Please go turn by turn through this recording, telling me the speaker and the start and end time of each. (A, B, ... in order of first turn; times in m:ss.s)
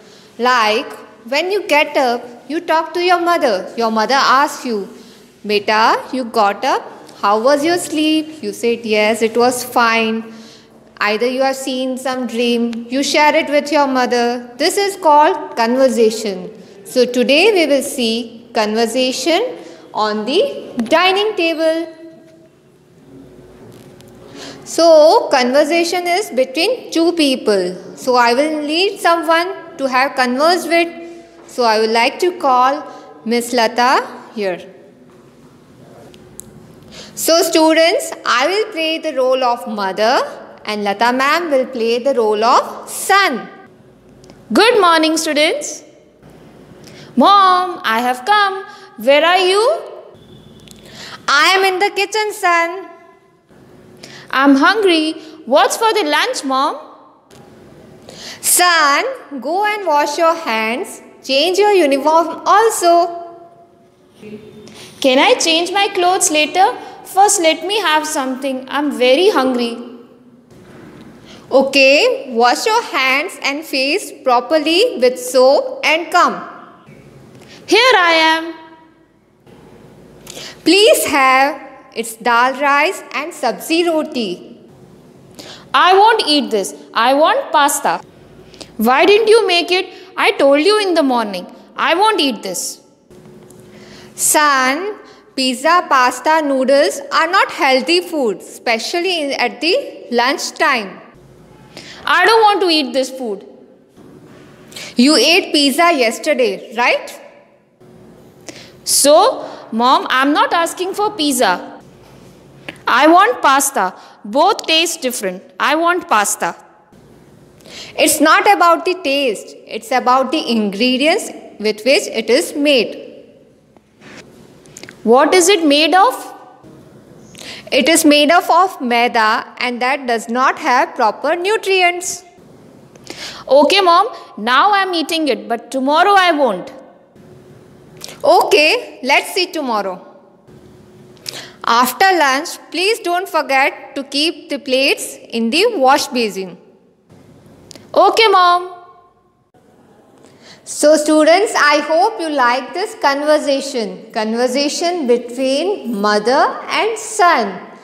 0:00.4-0:04.9 A
0:05.4-0:10.3 A
0:11.0-0:21.9 A
0:24.7-0:34.6 A
0:37.2-0:43.5 A
0:44.5-0:45.8 B
0:47.2-0:49.9 B
0:51.3-0:52.8 A
0:54.3-0:56.8 B
0:58.4-1:03.2 A
1:05.0-1:09.9 B
1:11.5-1:16.4 A
1:17.7-1:18.6 B
1:20.6-1:24.5 A
1:25.7-1:28.0 B
1:28.8-1:32.8 B
1:34.2-1:41.0 A
1:42.1-1:43.4 B
1:45.0-1:47.2 A
1:48.8-1:51.6 B
1:52.9-1:56.6 B
1:58.0-2:03.1 A
2:05.0-2:06.3 B
2:07.7-2:12.2 A
2:13.5-2:16.7 B
2:18.2-2:20.0 A
2:21.6-2:26.6 A
2:27.9-2:28.7 B
2:30.7-2:37.6 A